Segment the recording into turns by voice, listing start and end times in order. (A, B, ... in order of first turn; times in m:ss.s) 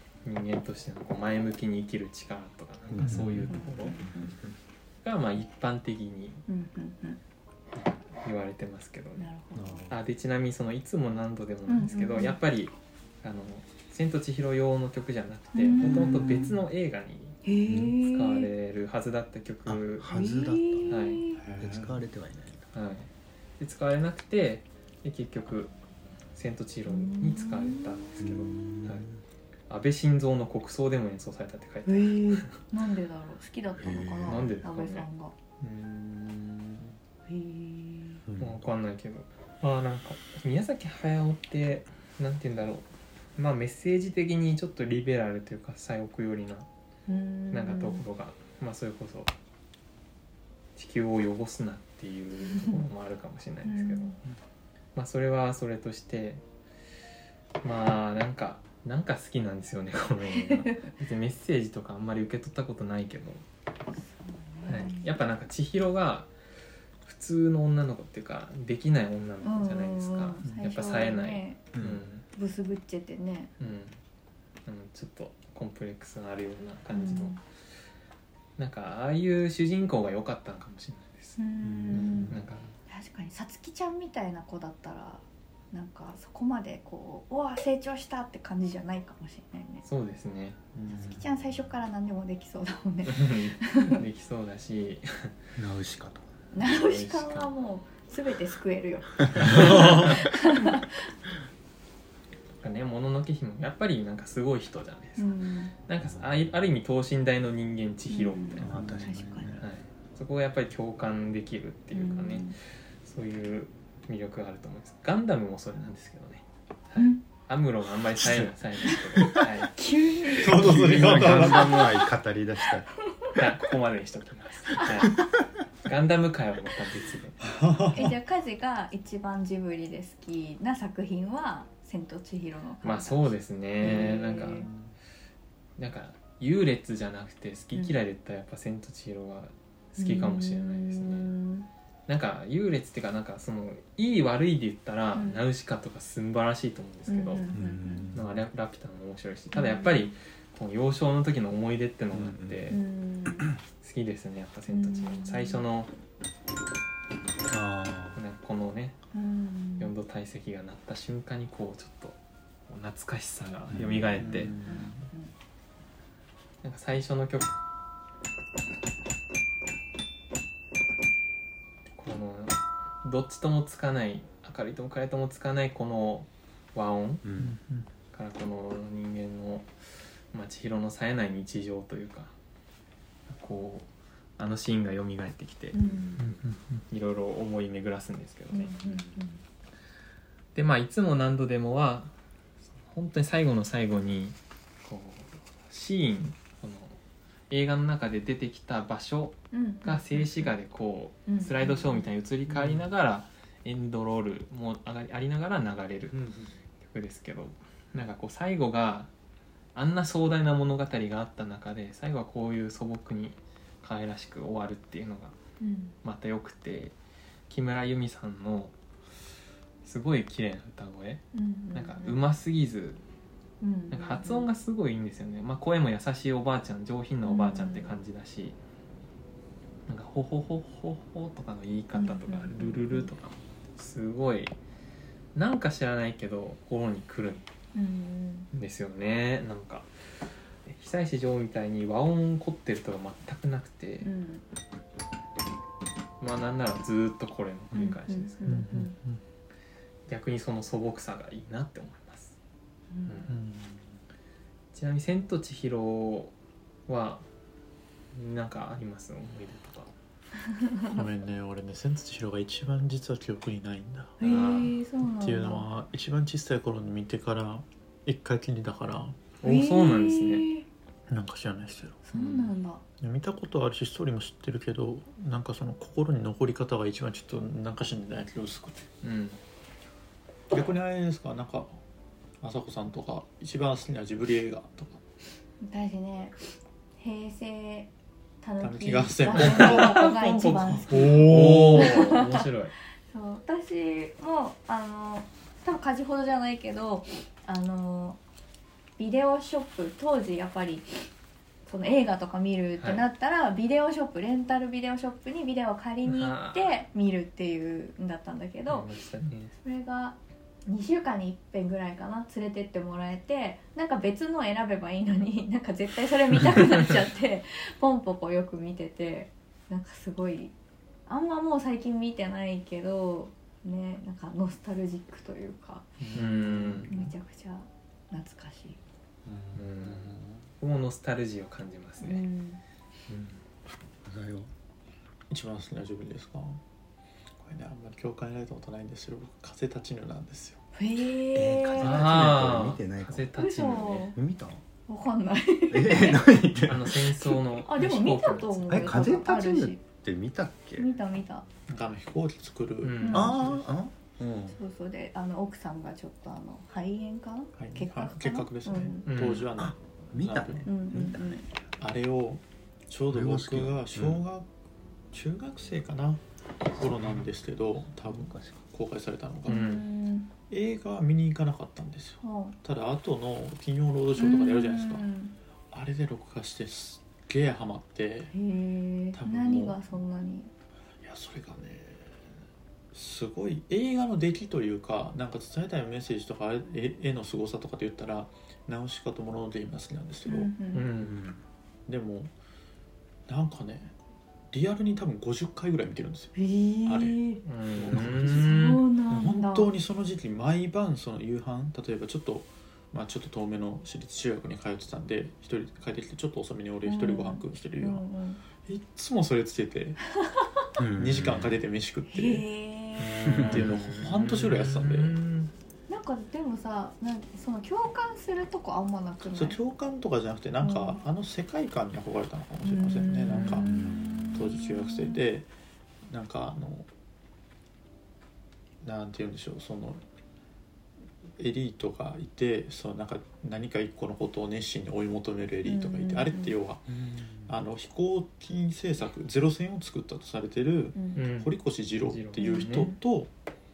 0:00.2-0:04.0 A
0:02.9-0:04.6 B
0:03.5-0:04.4 C
0:05.0-0:06.4 A
0:06.5-0:07.2 C
0:08.2-0:09.2 A
0:09.2-0:09.8 C
0:09.5-0:10.0 B
0:09.9-0:17.4 A
0:11.7-0:12.4 C
0:15.5-0:16.2 C
0:15.8-0:16.5 D
0:17.4-0:18.5 C
0:17.6-0:18.0 B
0:18.0-0:20.1 A
0:19.6-0:21.0 B
0:20.1-0:21.4 C
0:20.9-0:21.2 A
0:21.4-0:22.0 D
0:21.6-0:22.6 B
0:22.7-0:23.1 A
0:23.6-0:25.7 A
0:26.3-0:29.0 A
0:26.9-0:28.2 C
0:28.2-0:29.2 B
0:29.7-0:32.5 A
0:31.8-0:35.3 C
0:33.8-0:34.6 B
0:34.3-0:35.0 A
0:35.6-0:37.0 D
0:37.3-0:38.2 C
0:38.2-0:38.6 B
0:38.4-0:46.7 A
0:47.1-0:48.0 C
0:47.5-0:49.3 A
0:50.8-0:54.2 A
0:52.5-0:52.8 C
0:53.6-0:54.2 C
0:54.9-0:56.4 A
0:57.6-1:03.4 A
1:00.3-1:00.8 C
1:04.0-1:05.1 C
1:04.6-1:06.3 A
1:07.0-1:12.2 A
1:09.4-1:11.6 C
1:11.7-1:12.1 B
1:12.3-1:13.5 C
1:13.6-1:14.0 A
1:14.6-1:17.4 A
1:16.9-1:17.4 C
1:18.6-1:21.4 A
1:21.4-1:22.3 C
1:21.6-1:22.4 B
1:21.9-1:22.5 D
1:22.3-1:22.6 A
1:22.9-1:29.8 C
1:29.8-1:30.6 A
1:30.7-1:31.2 D
1:30.9-1:34.0 C
1:33.0-1:35.3 A
1:35.6-1:36.2 B
1:36.5-1:41.0 C
1:36.6-1:37.5 A
1:39.3-1:39.8 B
1:39.3-1:40.2 A
1:42.6-1:45.3 A
1:45.2-1:45.7 C
1:45.8-1:49.0 A
1:46.0-1:46.4 B
1:48.1-1:49.6 C
1:48.6-1:49.6 B
1:49.6-1:59.7 A
1:51.9-1:52.6 C
1:57.0-1:57.2 C
1:58.2-1:59.3 B
1:59.7-2:02.1 C
2:00.4-2:02.9 B
2:00.4-2:01.8 D
2:03.3-2:05.2 A
2:05.8-2:07.4 A
2:07.5-2:08.1 D
2:07.9-2:14.7 C
2:12.8-2:14.7 A
2:13.8-2:14.9 D
2:15.8-2:21.3 A
2:20.0-2:21.7 C
2:22.1-2:27.5 A
2:25.1-2:25.4 C
2:27.1-2:28.1 C
2:27.5-2:28.3 B
2:28.1-2:32.8 A
2:29.5-2:30.1 C
2:32.1-2:32.8 B
2:32.7-2:33.5 C
2:33.8-2:35.9 A
2:34.7-2:35.6 C
2:37.5-2:38.2 B
2:38.1-2:39.0 A
2:39.1-2:39.9 C
2:39.8-2:42.2 A
2:42.7-2:44.5 A
2:43.7-2:44.6 B
2:44.1-2:45.1 D
2:44.6-2:45.3 C
2:46.6-2:47.6 A
2:52.0-2:57.2 A
2:57.2-2:57.5 B
2:57.4-2:57.9 D
2:58.1-2:59.7 A
3:00.3-3:02.3 A
3:03.3-3:05.8 A
3:05.7-3:06.2 C
3:05.8-3:06.4 B
3:06.2-3:06.8 D
3:06.9-3:08.7 A
3:08.5-3:09.4 C
3:08.8-3:09.2 B
3:10.5-3:12.1 A
3:12.7-3:17.0 A
3:17.5-3:26.2 A
3:19.5-3:20.5 C
3:21.3-3:22.1 C
3:26.1-3:26.5 B
3:26.8-3:29.1 A
3:29.7-3:35.3 A
3:35.6-3:36.0 C
3:36.0-3:36.9 A
3:37.5-3:38.7 A
3:39.8-3:43.0 A
3:41.3-3:42.2 C
3:43.6-3:44.5 C
3:43.9-3:48.6 A
3:47.2-3:47.9 C
3:49.9-3:54.5 A
3:51.9-3:53.1 C
3:55.3-3:57.4 A
3:57.7-3:58.5 C
3:58.5-3:59.9 A
4:00.6-4:04.1 A
4:04.0-4:04.4 C
4:06.2-4:08.6 A
4:07.7-4:08.9 C
4:08.4-4:09.2 D
4:10.1-4:12.3 A
4:12.9-4:13.3 C
4:13.0-4:13.3 A
4:13.3-4:13.9 D
4:14.7-4:16.3 A
4:16.9-4:17.2 A
4:18.1-4:19.9 A
4:20.6-4:21.0 C
4:20.8-4:24.2 D
4:24.2-4:25.7 C
4:24.2-4:24.8 A
4:25.2-4:29.2 D
4:29.4-4:30.5 A
4:29.4-4:30.6 C
4:31.1-4:32.0 D
4:32.0-4:32.8 C
4:32.1-4:32.5 A
4:33.0-4:38.8 D
4:39.0-4:39.4 A
4:40.5-4:41.8 D
4:42.4-4:45.0 D
4:45.6-4:47.9 C
4:48.4-4:52.5 C
4:48.6-4:50.1 D
4:49.3-4:52.7 A
4:50.8-4:52.0 D
4:53.1-4:58.2 C
4:59.0-5:01.1 C
5:01.6-5:08.9 C
5:02.8-5:03.0 A
5:06.0-5:06.8 A
5:08.7-5:09.5 A
5:09.6-5:20.5 C
5:21.1-5:25.9 C
5:26.0-5:27.1 D
5:26.1-5:26.9 A
5:26.9-5:28.8 C
5:29.4-5:30.4 D
5:29.5-5:32.2 A
5:32.0-5:32.6 C
5:33.1-5:33.4 A
5:34.0-5:34.5 B
5:35.3-5:36.6 D
5:37.4-5:40.6 D
5:40.7-5:42.0 C
5:41.3-5:43.3 B
5:41.8-5:44.1 A
5:43.4-5:44.2 C
5:44.1-5:44.6 B
5:44.9-5:46.4 C
5:45.7-5:47.4 B
5:46.6-5:49.0 A
5:47.6-5:49.8 C
5:48.7-5:50.9 B
5:50.8-5:51.4 C
5:51.7-5:53.6 D
5:52.8-5:53.4 A
5:53.0-5:53.4 C
5:53.1-5:54.6 B
5:54.5-5:59.1 C
5:57.6-6:00.7 D
5:59.0-5:59.5 A
5:59.6-6:01.4 B
6:00.6-6:01.5 C
6:01.8-6:04.5 D
6:03.1-6:04.2 B
6:05.1-6:06.2 D
6:06.8-6:09.7 D
6:08.0-6:08.6 B
6:09.4-6:10.3 C
6:09.5-6:09.8 A
6:10.5-6:15.1 D
6:12.2-6:12.6 C
6:14.2-6:15.3 C
6:15.7-6:18.3 D
6:18.3-6:20.5 C
6:19.1-6:19.8 D
6:21.0-6:22.2 D
6:22.9-6:30.5 D
6:30.2-6:30.9 C
6:30.7-6:31.2 A
6:31.0-6:31.4 B
6:31.9-6:32.3 D
6:33.3-6:33.9 D
6:34.5-6:36.3 D
6:36.3-6:37.4 C
6:36.8-6:37.2 D
6:37.4-6:38.8 A
6:37.7-6:48.0 D
6:38.2-6:39.7 C
6:46.8-6:48.4 C
6:48.6-6:50.0 D
6:50.8-6:51.5 B
6:51.0-6:52.4 D
6:52.1-6:53.5 C
6:53.0-6:55.5 A
6:53.2-6:55.2 D
6:53.3-6:53.6 B
6:55.9-6:59.6 C
6:59.3-7:03.7 D
7:00.6-7:01.0 C
7:02.6-7:05.2 C
7:03.3-7:03.6 A
7:03.6-7:04.4 B
7:04.3-7:05.5 D
7:06.1-7:06.9 D
7:08.8-7:10.0 D
7:11.4-7:16.9 D
7:15.6-7:16.6 C
7:16.9-7:17.5 B
7:17.5-7:23.3 D
7:21.0-7:21.2 C
7:21.1-7:22.9 A
7:22.4-7:23.0 C